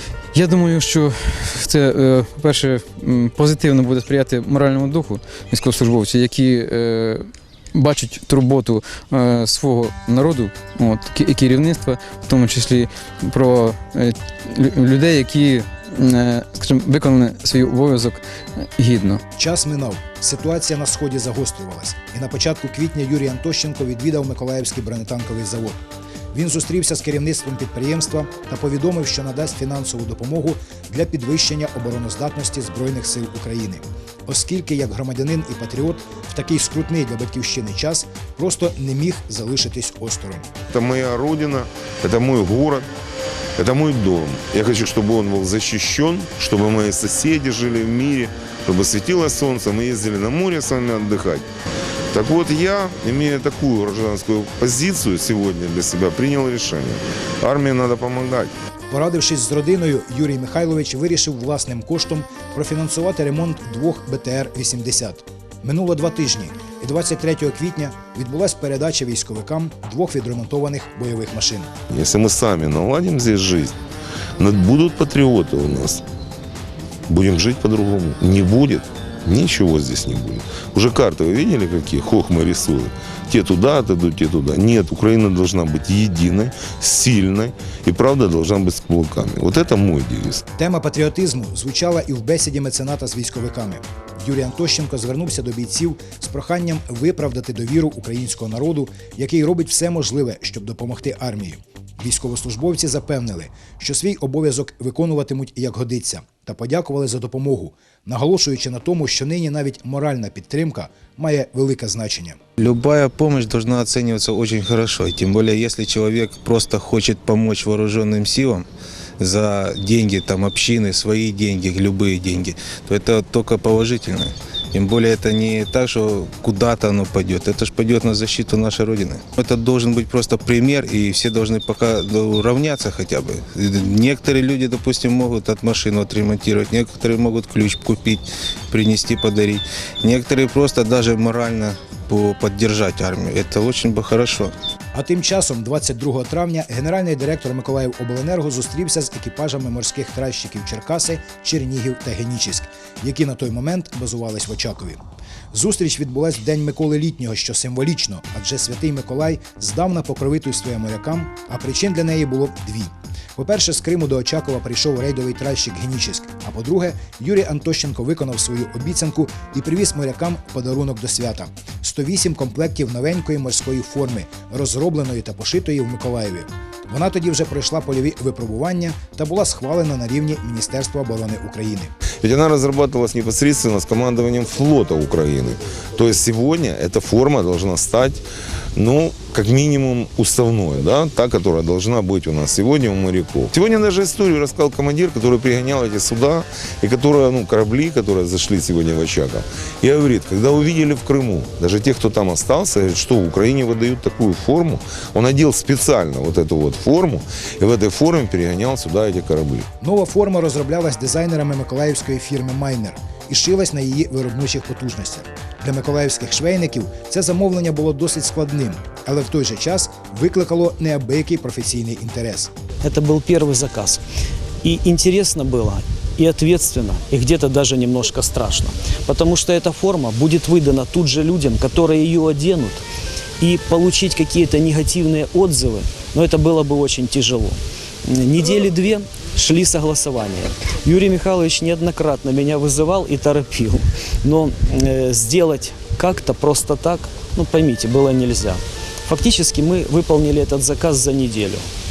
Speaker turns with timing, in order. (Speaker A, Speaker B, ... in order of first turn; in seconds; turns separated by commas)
Speaker A: 0.3-19.2, Speaker B: 19.4-40.5, Speaker C: 40.7-42.9, Speaker C: 43.6-51.5, Speaker C: 52.1-58.5, Speaker B: 58.9-71.7, Speaker C: 71.9-73.7, Speaker C: 74.4-76.0, Speaker C: 77.1-90.4, Speaker B: 90.6-112.4, Speaker D: 112.6-118.7, Speaker D: 119.2-144.5, Speaker B: 144.9-155.0, Speaker B: 155.5-181.9, Speaker C: 182.2-188.2, Speaker C: 188.8-209.7, Speaker B: 209.8-222.5, Speaker E: 222.8-224.0, Speaker E: 224.6-232.8, Speaker E: 233.4-251.7